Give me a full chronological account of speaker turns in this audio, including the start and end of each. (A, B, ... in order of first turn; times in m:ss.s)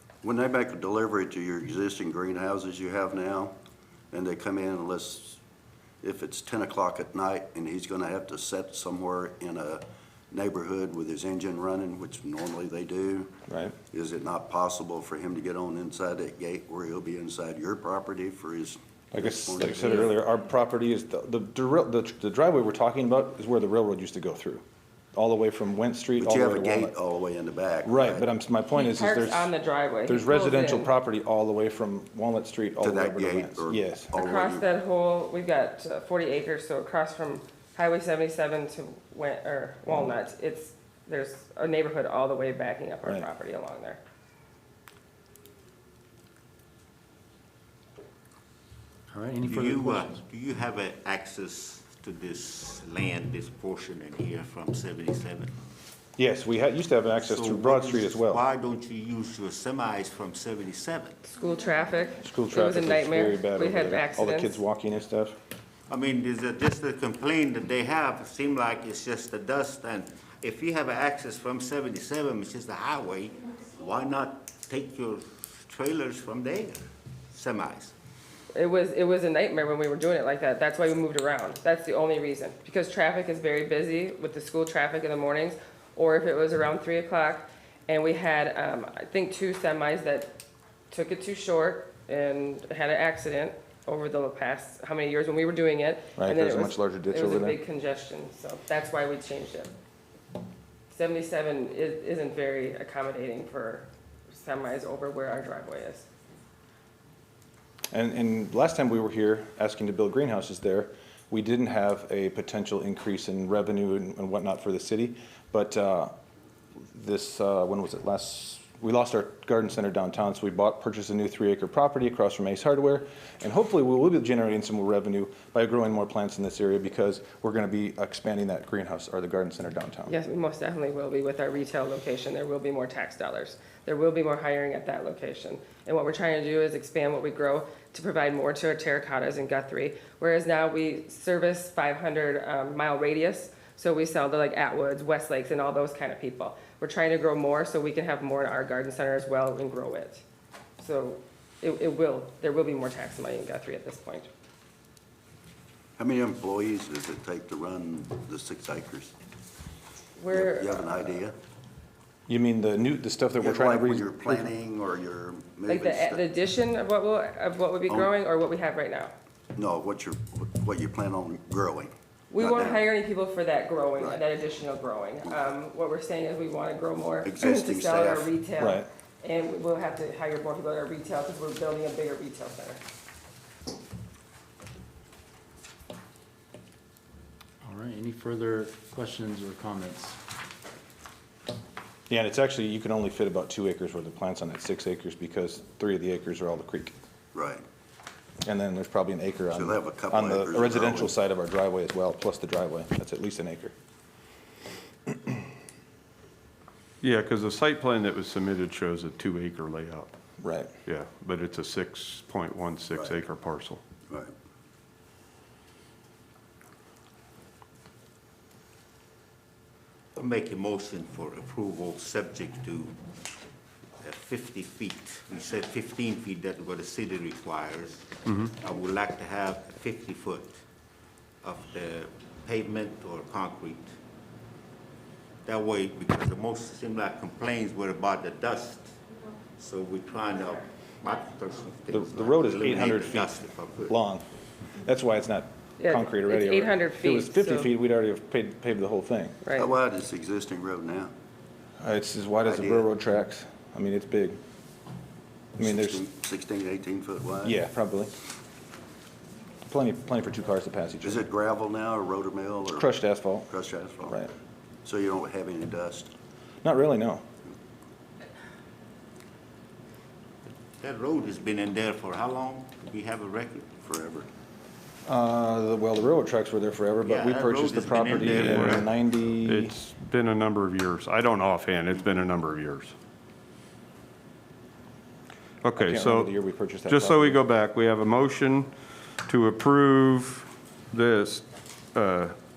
0:00.2-0:03.5 A
0:04.1-0:05.4 A
0:06.0-0:13.3 A
0:13.5-0:13.7 B
0:13.9-0:20.2 A
0:19.1-0:26.9 B
0:26.2-0:28.2 A
0:27.8-0:29.5 B
0:28.7-0:30.9 C
0:30.0-0:34.1 B
0:32.8-0:34.6 A
0:34.1-0:44.0 C
0:39.9-0:40.1 B
0:49.1-0:50.2 D
0:49.4-0:55.5 E
0:56.2-0:58.4 B
0:57.2-1:01.3 E
1:01.3-1:04.6 C
1:02.2-1:05.4 B
1:05.9-1:17.9 E
1:18.5-1:30.3 C
1:30.9-1:39.7 C
1:36.2-1:37.6 B
1:40.9-1:46.1 C
1:47.9-1:56.1 B
1:56.9-2:10.1 B
2:10.1-2:30.2 C
2:30.8-2:34.3 C
2:36.0-2:39.1 A
2:40.2-2:41.0 C
2:40.3-2:41.3 A
2:42.3-2:44.5 B
2:43.4-2:46.2 A
2:45.7-2:49.1 C
2:49.5-2:52.8 A
2:52.3-3:02.8 C
2:57.2-2:58.3 A
2:58.6-2:58.9 B
3:07.6-3:10.2 D
3:12.1-3:16.9 B
3:17.3-3:17.6 A
3:18.4-3:23.7 B
3:19.5-3:21.1 A
3:27.0-3:30.1 F
3:30.4-3:30.7 B
3:30.8-3:33.8 F
3:32.9-3:33.2 A
3:40.1-3:42.9 E
3:44.0-3:50.6 E
3:51.4-3:54.0 E
3:55.4-3:59.0 E
3:59.5-4:04.0 E
4:01.9-4:04.2 B
4:04.8-4:09.4 B
4:05.8-4:07.7 C
4:09.4-4:09.7 C
4:09.6-4:11.1 A
4:11.8-4:14.4 B
4:12.4-4:12.9 A
4:15.6-4:16.0 B
4:15.6-4:17.6 A
4:17.4-4:18.1 B
4:19.6-4:21.2 B
4:21.0-4:22.9 A
4:22.7-4:23.5 B
4:23.5-4:24.2 A
4:24.8-4:26.1 A
4:26.6-4:27.2 B
4:30.8-4:33.7 E
4:33.8-4:34.3 A
4:35.0-4:39.7 B
4:37.0-4:38.9 E
4:38.0-4:38.9 F
4:39.4-4:42.9 F
4:45.6-4:46.3 F
4:45.8-4:47.4 B
4:46.8-4:48.7 F
4:49.2-4:52.4 F